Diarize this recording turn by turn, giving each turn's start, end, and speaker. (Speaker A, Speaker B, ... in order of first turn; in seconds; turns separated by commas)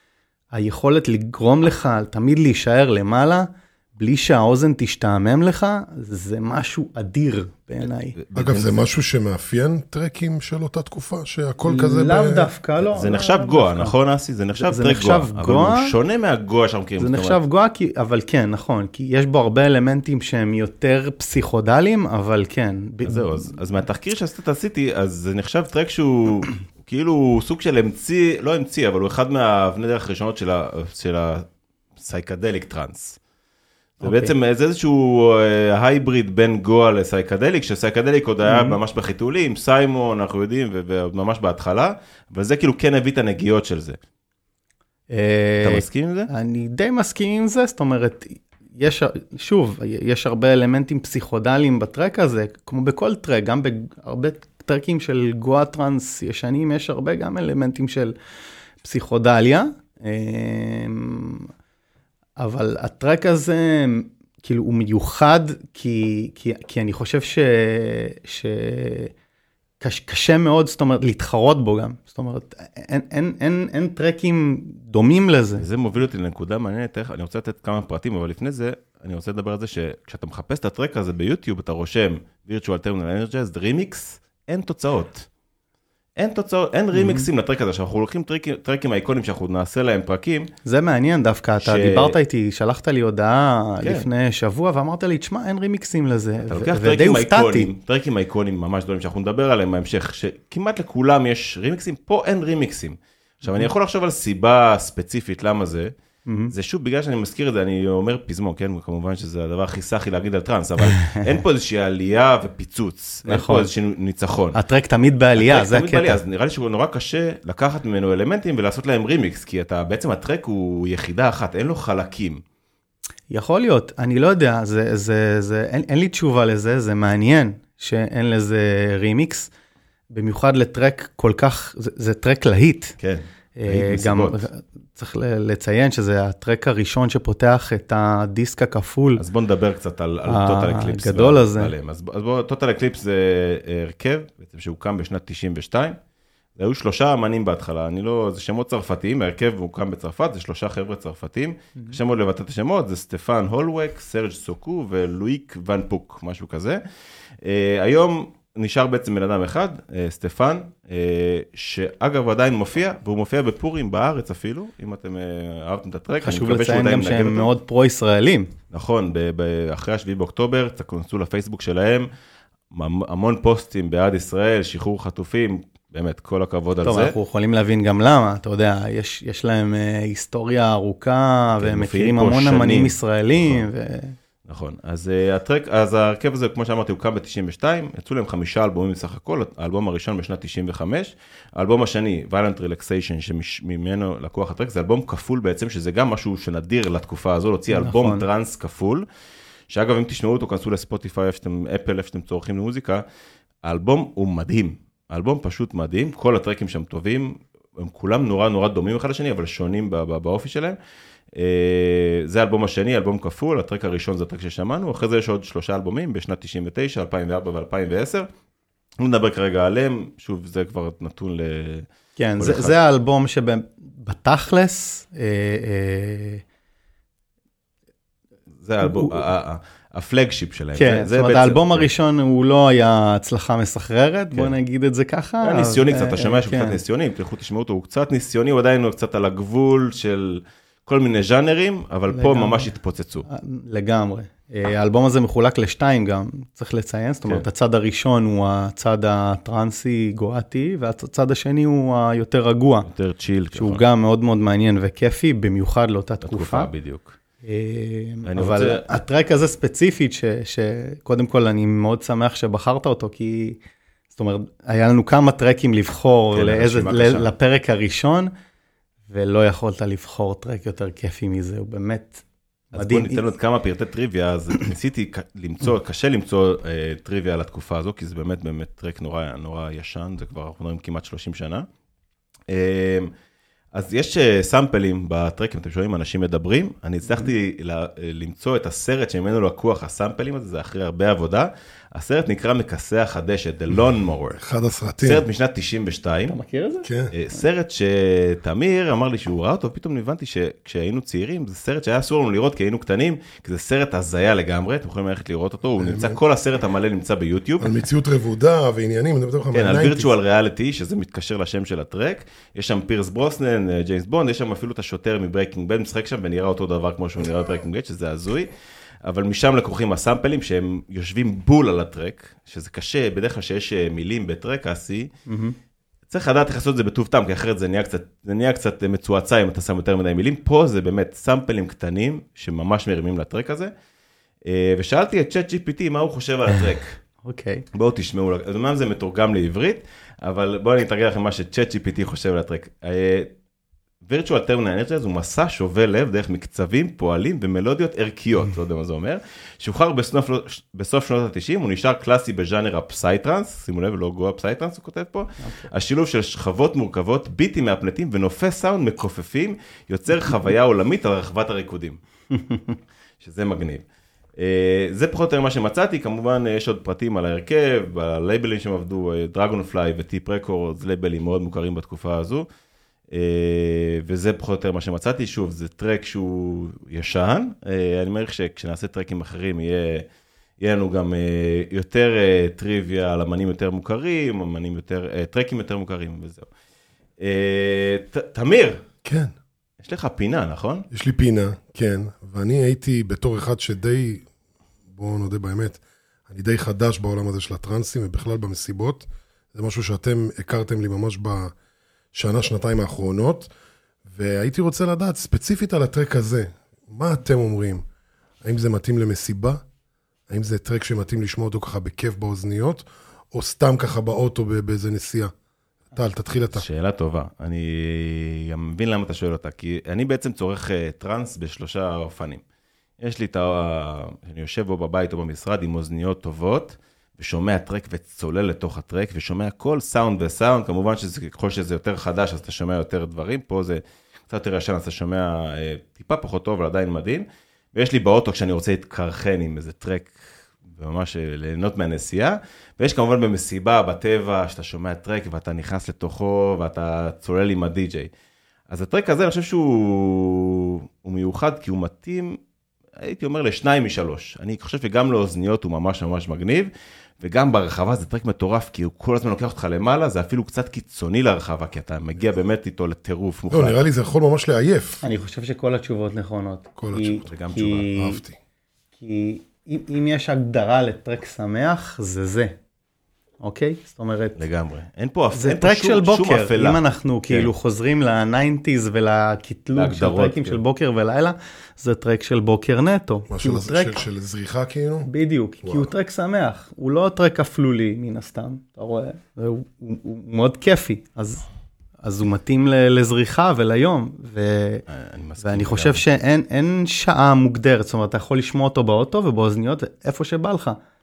Speaker A: 0.5-8.2, Speaker B: 8.2-8.8, Speaker C: 8.3-12.5, Speaker A: 11.6-13.9, Speaker B: 12.9-17.4, Speaker A: 14.6-15.9, Speaker A: 17.0-23.5, Speaker B: 23.0-31.4, Speaker B: 32.0-33.2, Speaker B: 34.0-44.0, Speaker A: 34.0-34.3, Speaker A: 38.5-38.8, Speaker A: 45.1-58.1, Speaker B: 45.6-46.3, Speaker A: 58.8-61.5, Speaker A: 62.4-69.1, Speaker A: 69.8-75.6, Speaker B: 75.6-85.3, Speaker B: 86.2-90.5, Speaker A: 86.9-87.3, Speaker A: 90.6-97.7, Speaker B: 91.6-92.2, Speaker B: 96.5-105.9, Speaker A: 106.3-106.5, Speaker B: 106.5-114.6, Speaker A: 111.0-111.3, Speaker A: 113.2-113.7, Speaker A: 114.5-116.2, Speaker B: 115.3-122.4, Speaker A: 123.3-129.5, Speaker A: 130.1-132.9, Speaker B: 133.0-134.4, Speaker A: 133.6-139.2, Speaker B: 139.2-146.0, Speaker A: 140.2-141.7, Speaker B: 146.6-156.8, Speaker B: 157.4-167.5, Speaker A: 166.2-168.5, Speaker B: 168.7-172.1, Speaker B: 172.7-177.1, Speaker A: 176.8-184.2, Speaker B: 181.6-183.7, Speaker B: 184.4-199.0, Speaker A: 197.7-198.2, Speaker B: 199.7-203.0, Speaker B: 203.6-210.8, Speaker B: 211.3-218.3, Speaker B: 219.0-221.9, Speaker A: 222.2-226.4, Speaker B: 222.4-222.8, Speaker B: 228.6-231.9, Speaker A: 228.8-229.2, Speaker A: 230.8-236.8, Speaker B: 235.4-243.3, Speaker A: 242.1-242.7, Speaker A: 243.2-252.9, Speaker B: 252.8-253.8, Speaker A: 253.5-256.7, Speaker B: 256.2-257.1, Speaker A: 257.4-263.6, Speaker B: 258.2-259.0, Speaker A: 264.1-268.3, Speaker B: 266.3-267.3, Speaker A: 269.1-273.2, Speaker B: 272.7-281.7, Speaker B: 282.5-283.1, Speaker B: 283.7-294.4, Speaker C: 294.4-295.2, Speaker B: 295.0-296.4, Speaker A: 296.3-296.9, Speaker C: 296.8-297.1, Speaker B: 297.1-307.7, Speaker C: 305.8-306.2, Speaker C: 307.6-310.1, Speaker B: 309.5-318.5, Speaker B: 319.0-325.1, Speaker A: 325.3-325.5, Speaker B: 326.1-333.7, Speaker B: 334.4-337.0, Speaker A: 336.5-337.6, Speaker B: 337.7-343.3, Speaker B: 344.0-362.0, Speaker A: 355.4-355.7, Speaker A: 362.4-362.7, Speaker B: 363.2-363.8, Speaker B: 364.4-372.4, Speaker B: 373.1-380.1, Speaker B: 380.6-386.5, Speaker B: 387.2-388.8, Speaker C: 389.0-389.3, Speaker B: 389.8-390.9, Speaker C: 390.9-394.3, Speaker C: 394.9-401.5, Speaker C: 402.1-403.5, Speaker C: 404.1-407.8, Speaker C: 408.4-409.6, Speaker C: 410.3-415.3, Speaker C: 415.9-416.6, Speaker B: 416.5-422.4, Speaker B: 423.0-448.1, Speaker B: 448.7-452.4, Speaker B: 453.0-456.7, Speaker B: 457.2-463.8, Speaker C: 463.5-465.0, Speaker A: 465.0-468.2, Speaker C: 466.8-468.4, Speaker B: 467.2-467.9, Speaker A: 469.0-472.5, Speaker A: 473.4-474.4, Speaker B: 474.4-477.5, Speaker A: 475.3-484.0, Speaker B: 479.7-480.6, Speaker C: 483.3-485.1, Speaker A: 485.1-491.4, Speaker C: 485.6-485.9, Speaker A: 492.0-494.8, Speaker B: 494.9-496.0, Speaker A: 495.4-500.8